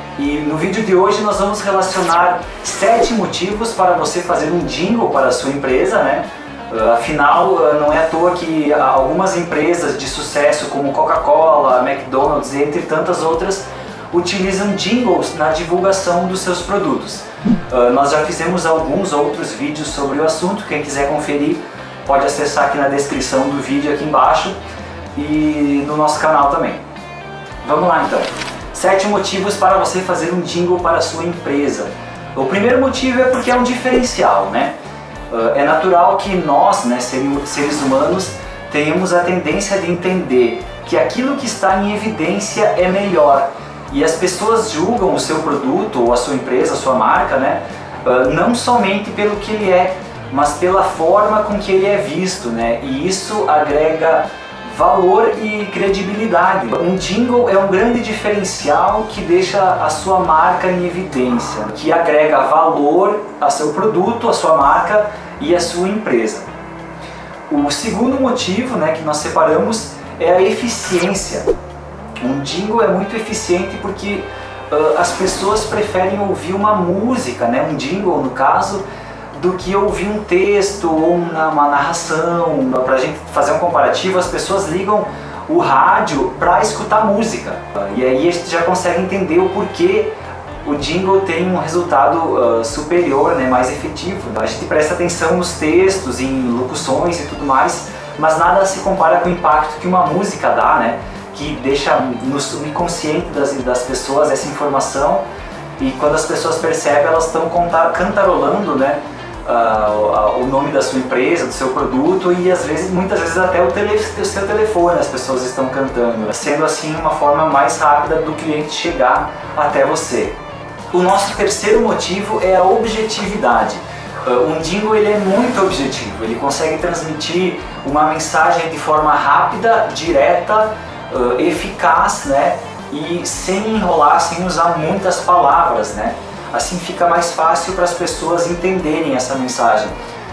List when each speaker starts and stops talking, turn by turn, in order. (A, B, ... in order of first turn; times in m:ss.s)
0:00.2-0:24.6 A
0:25.1-0:26.8 A
0:27.6-0:34.7 A
0:35.3-1:06.5 A
1:07.5-1:11.5 A
1:12.2-1:45.2 A
1:45.8-2:00.4 A
2:00.9-2:19.9 A